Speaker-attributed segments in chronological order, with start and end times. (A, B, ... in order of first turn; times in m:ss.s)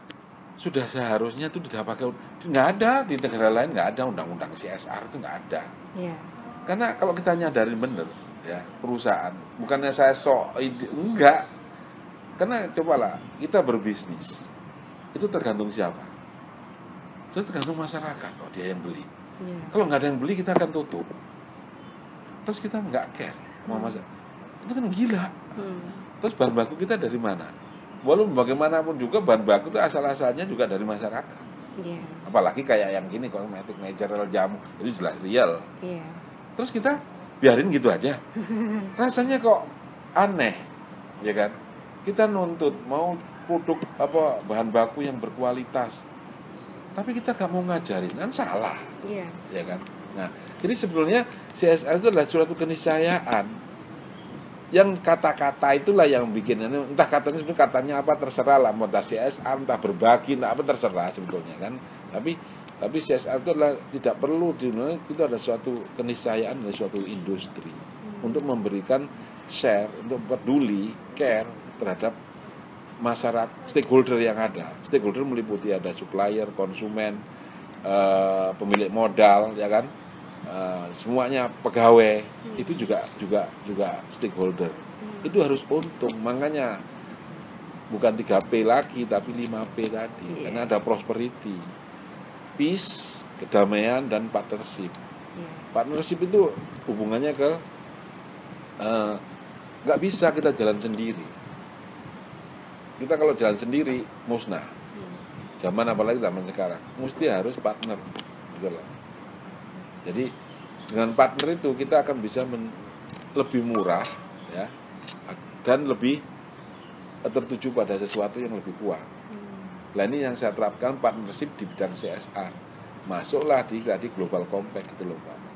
0:00.6-0:05.7 A
0:06.0-0:06.3 B
0:06.6-0:11.5 A
0:12.4-0:14.4 A
0:15.1-0:16.1 A
0:17.3-0:19.1 A
0:19.4-0:19.7 B
0:19.7-0:21.1 A
0:22.5-0:24.0 A
0:23.7-0:24.0 B
0:24.6-0:25.4 A
0:25.6-0:26.1 B
0:26.2-0:27.5 A
0:28.1-0:31.4 A
0:31.8-0:32.3 B
0:32.2-0:35.7 A
0:35.8-0:36.2 B
0:36.6-0:38.2 A
0:38.5-0:38.9 B
0:39.0-0:40.6 A
0:41.2-0:46.0 A
0:47.0-0:48.8 A
0:49.0-0:49.4 B
0:49.5-0:53.6 A
0:54.7-1:12.2 A
1:08.1-1:08.5 B
1:13.0-1:17.2 A
1:17.8-1:19.9 A
1:20.5-1:26.8 A
1:25.0-1:25.3 B
1:27.9-1:31.7 A
1:30.3-1:30.8 B
1:32.6-1:35.0 A
1:35.4-1:35.7 B
1:35.7-1:37.6 A
1:38.8-1:39.2 A
1:39.8-1:41.3 A
1:43.0-1:44.7 A
1:45.0-1:45.2 B
1:45.6-1:48.9 A
1:50.0-1:50.3 A
1:50.9-1:54.7 A
1:55.3-1:56.2 A
1:57.2-1:59.1 A
1:59.3-1:59.8 B
1:59.9-2:05.4 A